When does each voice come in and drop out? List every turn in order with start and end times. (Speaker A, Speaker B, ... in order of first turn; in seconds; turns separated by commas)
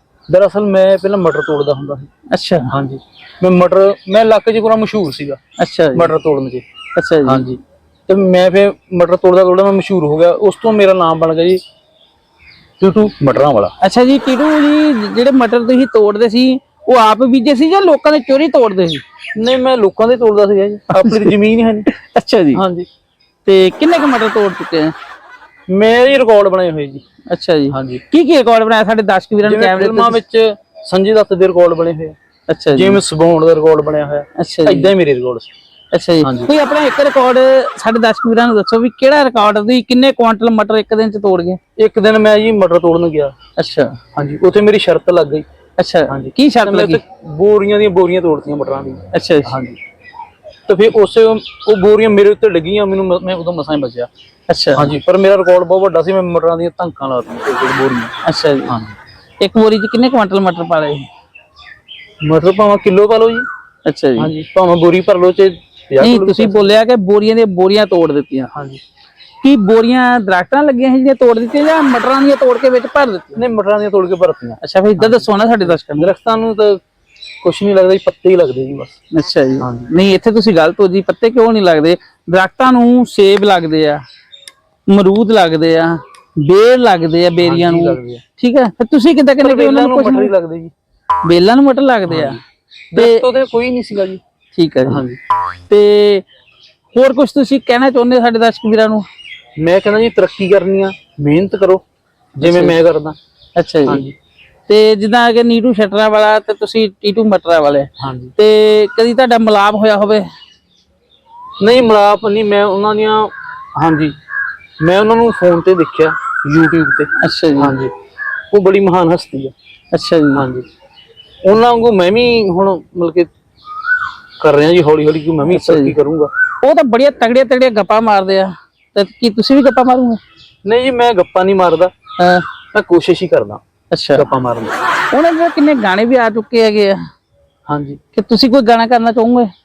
Speaker A: 0.3-2.1, Speaker B: 2.3-2.7, Speaker A: 2.7-5.4, Speaker B: 5.6-6.1, Speaker A: 5.9-6.6, Speaker B: 6.9-7.5, Speaker A: 7.2-11.6, Speaker A: 12.8-13.7, Speaker B: 13.8-19.0, Speaker A: 19.3-21.9, Speaker B: 20.9-21.3, Speaker B: 21.9-22.6, Speaker A: 22.5-22.9, Speaker B: 23.4-24.9, Speaker A: 25.7-27.0, Speaker B: 27.3-30.2, Speaker A: 27.7-28.0, Speaker A: 29.4-32.1, Speaker B: 32.5-33.0, Speaker A: 32.7-35.5, Speaker B: 34.4-34.9, Speaker B: 35.9-41.6, Speaker A: 36.2-36.5, Speaker A: 41.8-43.3, Speaker B: 43.6-44.0, Speaker A: 44.1-45.5, Speaker B: 45.8-47.0, Speaker A: 46.1-49.8, Speaker B: 49.1-49.6, Speaker A: 50.6-54.1, Speaker B: 54.5-54.9, Speaker A: 54.7-58.1, Speaker B: 58.2-58.8, Speaker A: 58.7-58.9, Speaker B: 59.4-61.1, Speaker A: 62.2-63.5, Speaker B: 63.8-64.3, Speaker A: 64.2-66.8, Speaker B: 66.0-68.5, Speaker A: 68.5-68.8, Speaker B: 69.4-73.4, Speaker A: 73.3-76.8, Speaker B: 74.6-76.1, Speaker A: 77.4-79.0, Speaker B: 79.1-84.0, Speaker A: 79.6-79.9, Speaker B: 84.9-90.3, Speaker A: 87.4-88.2, Speaker A: 89.4-90.7, Speaker B: 91.2-92.4, Speaker A: 92.1-92.4, Speaker A: 92.9-94.2, Speaker B: 92.9-93.2, Speaker B: 94.5-95.0, Speaker A: 94.9-95.2, Speaker B: 95.7-96.2, Speaker B: 96.9-99.0, Speaker A: 99.6-101.8, Speaker A: 102.4-103.2, Speaker B: 102.4-102.7, Speaker B: 103.5-104.0, Speaker A: 103.8-104.1, Speaker B: 104.7-110.2, Speaker A: 108.0-108.3, Speaker A: 111.6-114.1, Speaker A: 114.8-117.9, Speaker B: 117.2-117.7, Speaker A: 118.5-119.5, Speaker B: 119.9-120.4, Speaker A: 120.3-120.7, Speaker A: 121.4-123.3, Speaker A: 124.4-126.3, Speaker B: 125.5-126.0, Speaker B: 126.6-130.2, Speaker A: 130.6-131.9, Speaker B: 132.2-132.5, Speaker A: 132.7-133.6, Speaker B: 133.9-134.3, Speaker A: 134.2-134.8, Speaker B: 135.1-137.0, Speaker A: 137.7-138.0, Speaker B: 138.1-139.5